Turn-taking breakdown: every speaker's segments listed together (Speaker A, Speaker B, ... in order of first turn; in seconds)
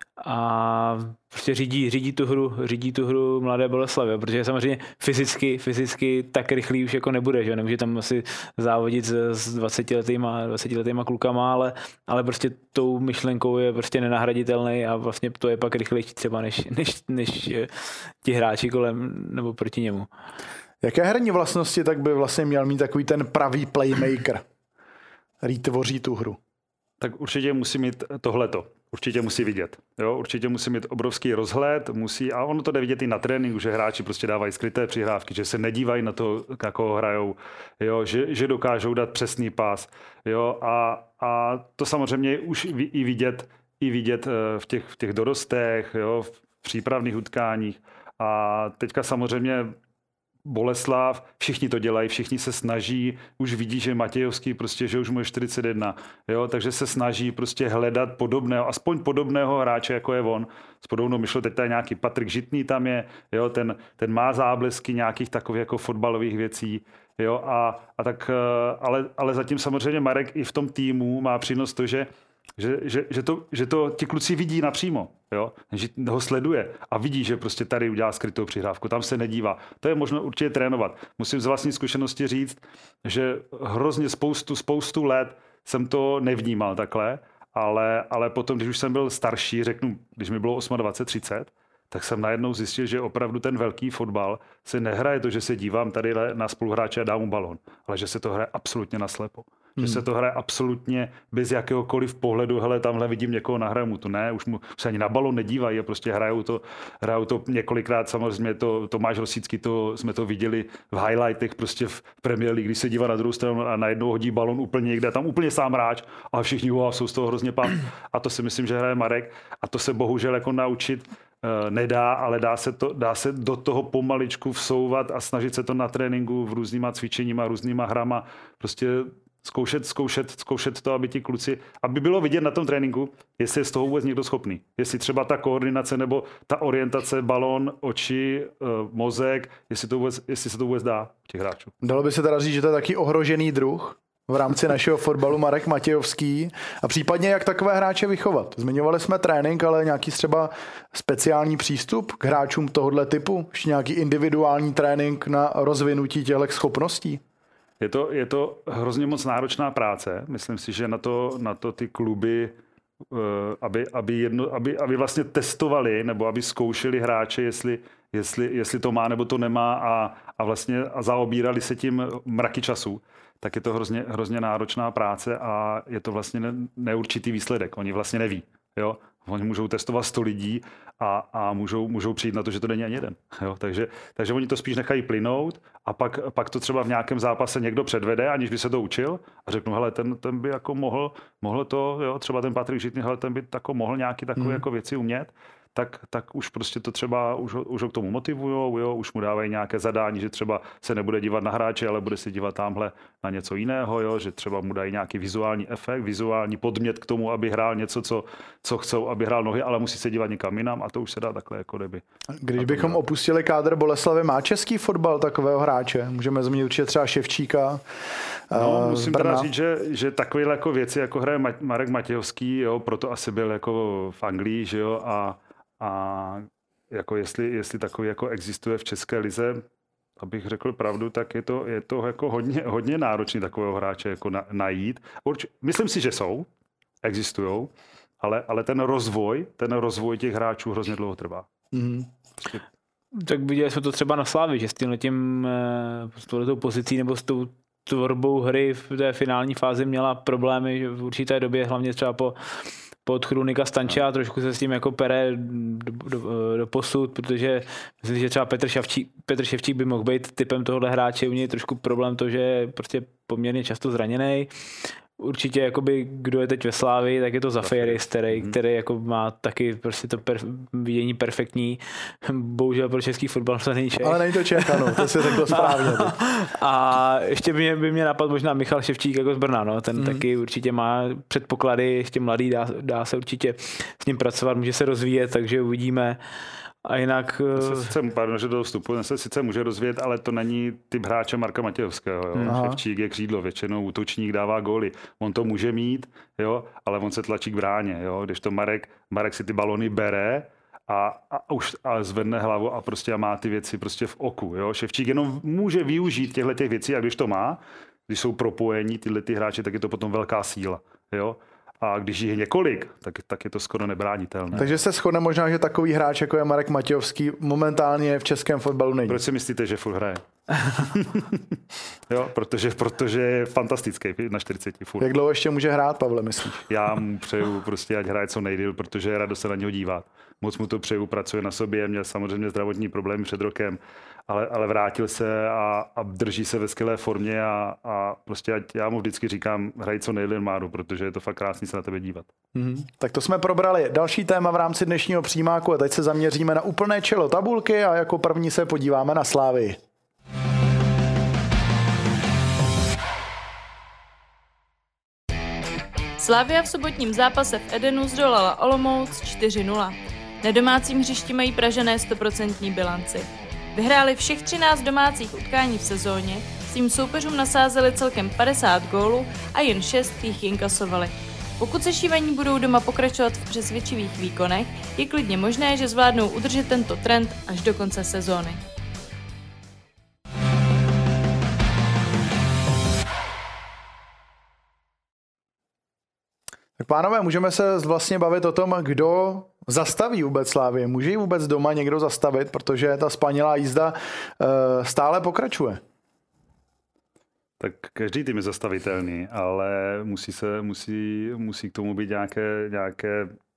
Speaker A: 0.2-20.1, 243.2-252.4, 253.1-286.2, 286.8-287.9
Speaker B: 20.8-24.4, 25.4-26.4, 141.8-157.2, 212.4-217.8, 218.5-219.5, 241.7-242.1, 274.0-276.2, 292.4-292.8, 314.5-319.2, 325.0-326.6, 342.5-349.8, 386.8-395.8
Speaker C: 27.0-49.7, 50.4-141.7, 157.8-162.5, 163.1-212.0, 212.6-213.0, 218.5-229.6, 230.2-236.5, 237.0-241.5, 267.6-268.6, 287.5-314.8, 319.1-321.4, 322.1-325.1, 326.7-342.3, 397.6-403.4
Speaker D: 356.2-378.6